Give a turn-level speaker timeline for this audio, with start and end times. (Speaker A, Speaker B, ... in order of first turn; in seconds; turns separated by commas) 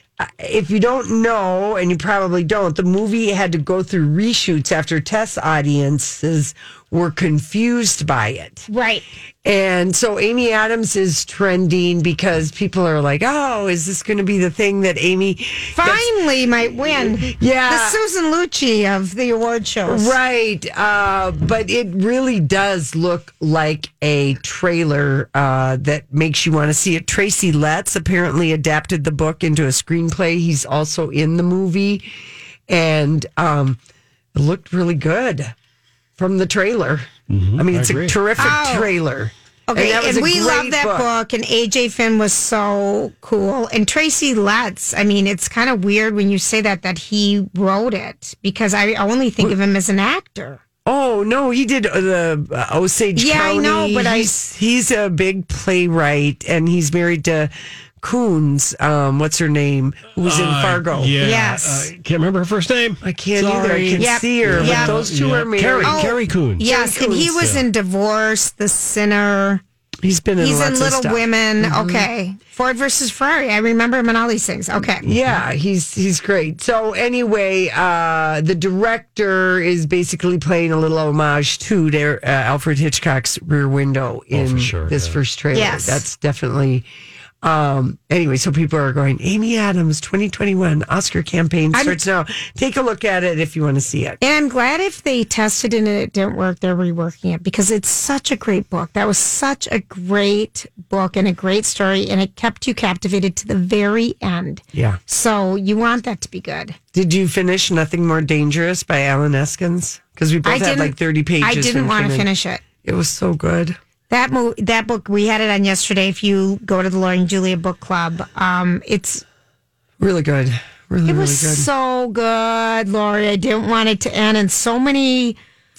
Speaker A: 0.2-8.7, Speaker B: 8.7-9.1, Speaker A: 9.4-16.1, Speaker B: 15.7-20.1, Speaker A: 16.8-18.0, Speaker A: 19.8-32.1, Speaker A: 32.7-33.8, Speaker A: 34.3-35.5, Speaker A: 36.2-41.1, Speaker C: 37.3-38.2, Speaker B: 38.4-38.9, Speaker B: 39.7-50.6, Speaker A: 50.9-61.3, Speaker B: 53.1-54.3, Speaker C: 60.2-66.7, Speaker B: 61.2-61.9, Speaker A: 63.0-67.4, Speaker B: 64.0-65.0, Speaker B: 65.8-69.6, Speaker C: 67.3-67.6, Speaker A: 70.0-72.1, Speaker B: 70.4-75.0, Speaker A: 75.0-86.9, Speaker C: 75.0-75.4, Speaker C: 84.3-85.2, Speaker B: 85.5-86.0, Speaker A: 87.4-94.2, Speaker B: 91.7-92.0, Speaker B: 94.2-106.8, Speaker A: 104.7-105.0, Speaker A: 106.9-112.3, Speaker B: 110.4-112.6, Speaker A: 112.8-113.8, Speaker B: 114.1-119.2, Speaker A: 120.0-121.7, Speaker B: 121.0-125.4